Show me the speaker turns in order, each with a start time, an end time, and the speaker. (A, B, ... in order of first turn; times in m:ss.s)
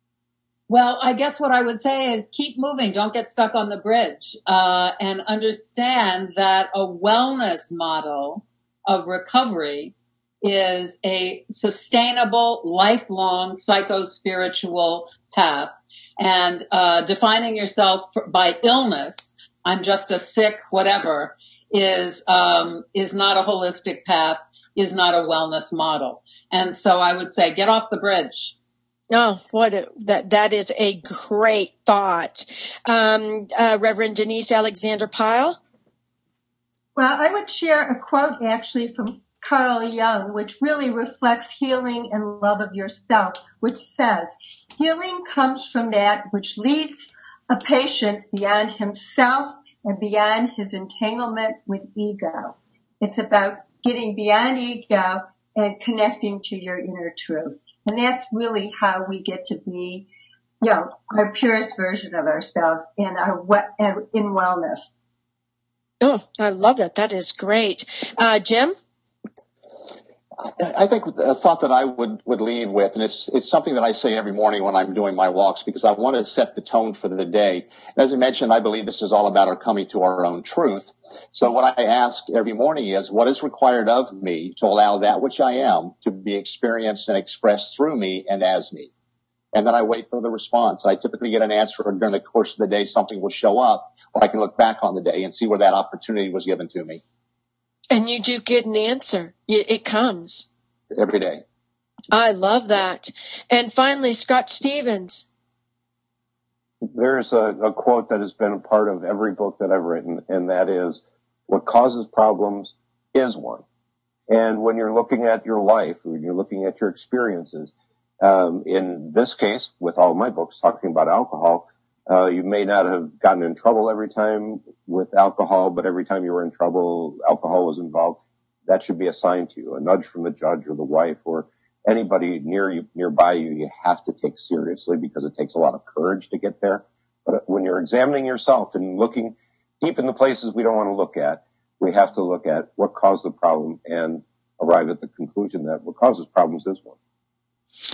0:00.7-0:28.6 A
0:29.1-0:35.6 B
0:37.0-1:00.1 C
1:00.6-1:04.9 C
1:06.0-1:08.7 B
1:10.6-1:28.9 D
1:29.5-1:37.0 D
1:37.9-1:40.5 B
1:41.0-1:41.4 D
1:42.1-1:45.3 B
1:46.9-1:53.6 E
1:54.3-2:27.0 E